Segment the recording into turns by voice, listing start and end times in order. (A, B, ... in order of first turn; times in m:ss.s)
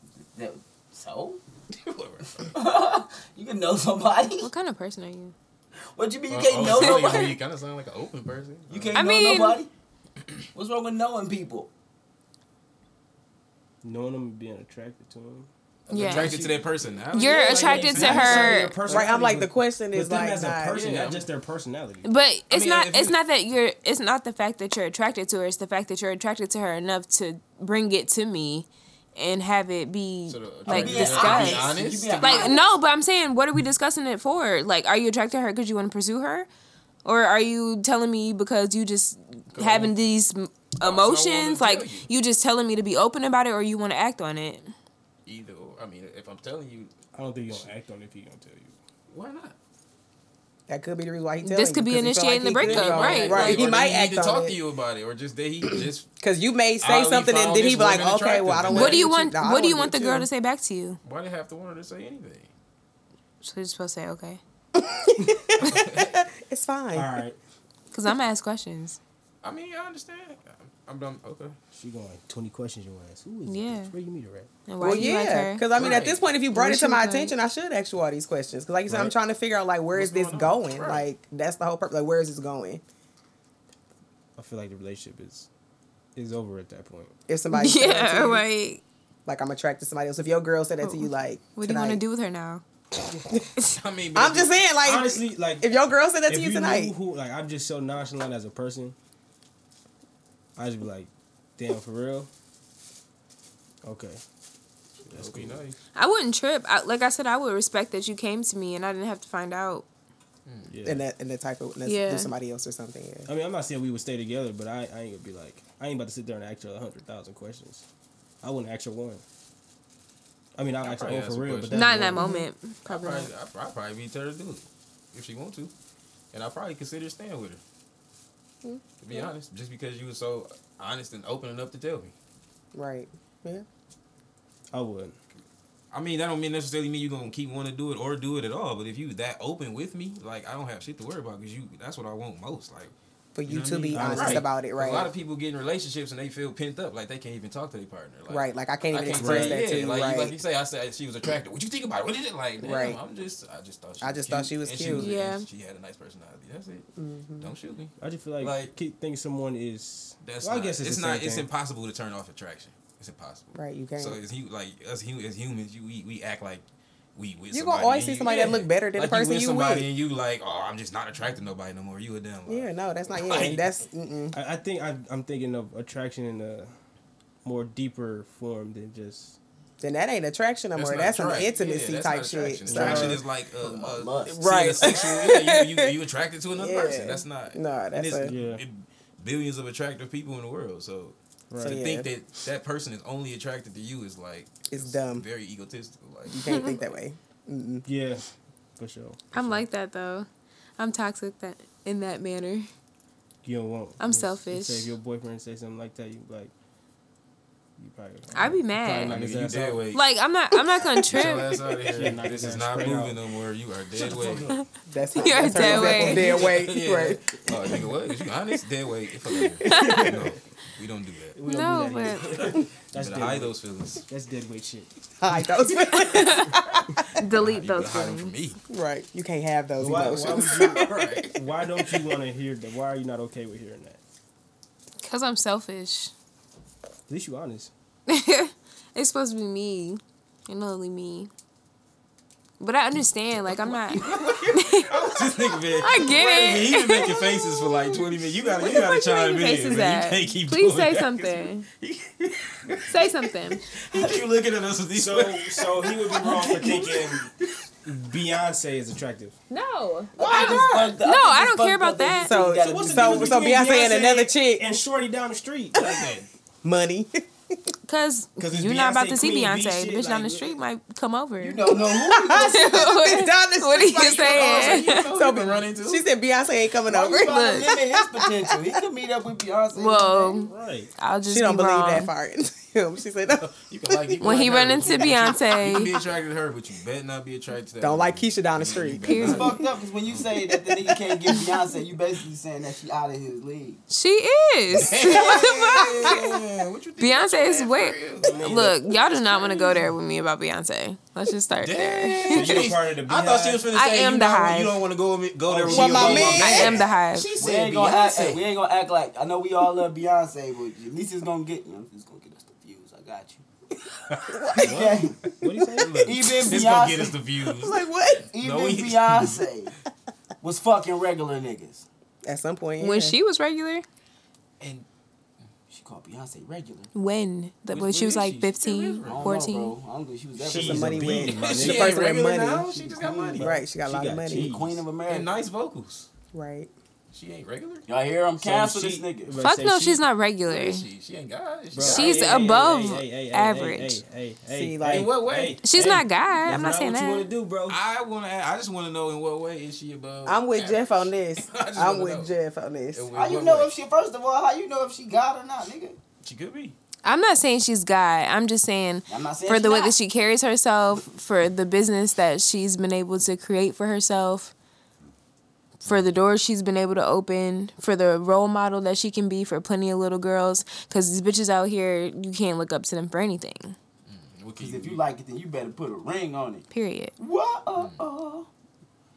0:00.3-0:01.4 A
0:01.7-0:02.5 B
0:02.4-0:04.5 A
0:04.4-0:05.3 C
0:05.8-0:07.4 A
0:06.3-0:09.0 B
0:06.7-0:07.3 C
0:08.7-0:09.7 A
0:08.9-0:09.6 C
0:10.5-0:11.7 A
0:13.8-0:15.5 D
0:15.9-0:16.9 A
0:15.9-0:16.4 C
0:15.9-0:18.6 B
0:17.1-0:18.8 C
0:17.2-0:22.0 D
0:18.8-0:20.8 E
0:20.7-0:21.3 B
0:22.0-0:36.5 C
0:22.5-0:23.2 B
0:30.3-0:32.6 B
0:30.7-0:32.7 A
0:37.0-0:44.7 C
0:39.5-0:39.9 B
0:40.8-0:42.1 B
0:45.2-0:46.9 B
0:47.1-0:48.8 D
0:49.1-0:49.6 B
0:50.7-0:54.6 E
0:51.4-0:53.6 C
0:52.6-0:56.1 B
0:56.2-1:00.3 E
0:56.8-0:59.1 B
0:58.7-1:01.0 C
1:01.0-1:02.5 B
1:03.4-1:04.4 C
1:04.8-1:07.1 E
1:05.6-1:06.2 B
1:06.9-1:07.4 D
1:07.9-1:09.0 C
1:09.4-1:11.5 B
1:11.7-1:14.5 D
1:13.4-1:13.9 C
1:14.7-1:15.7 C
1:14.8-1:22.8 E
1:15.7-1:16.3 B
1:16.5-1:17.3 C
1:18.8-1:19.1 D
1:19.9-1:21.1 B
1:24.4-1:25.5 D
1:26.1-1:27.1 D
1:27.3-1:28.4 E
1:27.5-1:28.8 C
1:29.2-1:32.0 E
1:30.8-1:32.6 C
1:33.6-1:34.6 B
1:34.1-1:36.9 E
1:34.8-1:35.7 D
1:36.3-1:39.0 D
1:40.6-1:42.3 D
1:43.8-1:44.2 D
1:45.0-1:45.8 B
1:45.1-1:45.6 D
1:45.9-1:49.8 C
1:50.4-1:50.7 B
1:50.6-1:51.0 D
1:50.8-1:53.3 E
1:51.8-1:52.3 C
1:53.3-1:57.8 D
1:58.4-1:59.2 D
2:00.6-2:02.3 D
2:00.8-2:02.0 B
2:01.7-2:03.3 C
2:02.2-2:02.5 E
2:02.9-2:05.7 B
2:06.3-2:07.6 B
2:08.6-2:09.3 E
2:09.0-2:12.1 B
2:12.7-2:13.6 E
2:14.7-2:15.2 D
2:15.9-2:22.9 B
2:23.3-2:25.1 E
2:23.4-2:36.9 B
2:23.9-2:24.5 D
2:28.3-2:30.4 E
2:29.0-2:29.7 D
2:32.6-2:33.0 E
2:34.0-2:35.1 E
2:34.9-2:35.4 C
2:37.0-2:37.5 E
2:37.4-2:38.7 B
2:38.0-2:41.5 D
2:40.2-2:53.6 B
2:43.5-2:44.2 E
2:47.5-2:49.9 E
2:52.5-2:54.4 E
2:54.3-2:56.7 D
2:57.4-2:59.4 D
2:59.8-3:03.2 E
3:00.7-3:16.9 B
3:02.6-3:03.2 D
3:03.6-3:04.4 A
3:04.3-3:06.0 E
3:06.5-3:08.4 E
3:08.2-3:08.6 D
3:11.5-3:11.8 D
3:11.6-3:12.1 E
3:14.7-3:15.2 E
3:16.3-3:17.8 E
3:17.8-3:18.2 D
3:18.8-3:19.6 D
3:19.3-3:20.3 C
3:20.8-3:22.7 C
3:23.4-3:26.5 D
3:24.0-3:24.9 C
3:27.8-3:29.9 D
3:28.3-3:29.2 C
3:29.1-3:30.0 B
3:29.9-3:31.5 C
3:31.1-3:34.6 B
3:31.8-3:33.2 D
3:34.9-3:37.4 E
3:35.2-3:36.4 C
3:35.4-3:41.4 B
3:39.7-3:40.3 D
3:39.7-3:40.0 E
3:39.7-3:40.0 C
3:41.3-3:44.9 D
3:41.4-3:42.4 C
3:42.2-3:44.0 B
3:45.2-3:46.8 E
3:45.9-3:46.5 C
3:47.2-3:48.3 C
3:47.3-3:48.6 B
3:48.7-3:50.9 E
3:49.8-3:54.0 D
3:49.8-3:51.9 B
3:55.0-3:56.1 C
3:57.1-3:57.7 D
3:58.1-4:01.3 C
4:02.6-4:04.9 C
4:03.7-4:13.2 B
4:05.8-4:07.9 C
4:08.4-4:11.7 C
4:12.9-4:13.6 C
4:13.7-4:16.9 B
4:13.9-4:14.2 A
4:14.9-4:17.3 D
4:17.8-4:19.4 D
4:19.5-4:22.3 C
4:20.2-4:21.0 B
4:20.2-4:23.4 A
4:22.2-4:24.6 E
4:22.6-4:26.2 D
4:25.8-4:26.3 B
4:26.6-4:27.2 E
4:27.9-4:31.6 C
4:28.4-4:30.6 D
4:31.4-4:32.8 A
4:31.7-4:38.5 E
4:32.2-4:35.0 C
4:33.8-4:36.1 B
4:36.8-4:40.4 A
4:37.2-4:37.7 C
4:39.7-4:42.1 C
4:40.3-4:40.9 D
4:41.3-4:43.5 E
4:43.4-4:50.2 B
4:44.2-4:45.9 C
4:47.8-4:49.3 E
4:49.0-4:49.6 C
4:49.2-4:53.8 A
4:53.9-4:56.4 C
4:54.7-4:59.9 B
4:57.0-5:02.7 C
4:58.2-4:58.8 D
5:01.6-5:08.4 B
5:02.3-5:03.7 D
5:03.7-5:04.8 C
5:05.4-5:06.5 D
5:05.6-5:06.7 E
5:06.1-5:07.3 C
5:07.4-5:13.4 A
5:14.1-5:14.7 B
5:14.3-5:14.7 E
5:14.6-5:15.2 A
5:14.6-5:16.1 D
5:15.2-5:19.4 B
5:16.0-5:17.2 A
5:17.5-5:18.3 E
5:18.3-5:19.7 A
5:20.4-5:21.8 A
5:22.2-5:23.2 E
5:22.8-5:23.8 C
5:24.6-5:24.8 B
5:25.7-5:26.9 A
5:26.9-5:29.7 C
5:27.7-5:29.4 B
5:29.0-5:31.0 A
5:30.4-5:34.8 D
5:30.5-5:32.7 E
5:30.5-5:33.5 B
5:32.9-5:33.4 A
5:33.4-5:34.5 E
5:34.3-5:35.4 A
5:35.0-5:36.1 B
5:36.3-5:36.7 E
5:37.1-5:37.8 B
5:37.9-5:39.3 A
5:38.4-5:40.0 D
5:39.4-5:40.8 C
5:40.5-5:42.4 B
5:41.7-5:47.8 D
5:41.8-5:44.0 C
5:44.5-5:45.2 E
5:44.8-5:45.6 B
5:45.6-5:47.3 C
5:47.7-5:52.3 B
5:50.2-5:53.1 E
5:52.9-5:53.7 B
5:53.1-5:56.0 A
5:56.2-5:56.7 B
5:57.0-6:04.5 C
5:59.1-6:00.0 A
6:05.8-6:13.8 C
6:05.8-6:06.1 B
6:14.1-6:15.0 B
6:14.6-6:16.7 A
6:16.7-6:17.1 C
6:17.2-6:18.5 A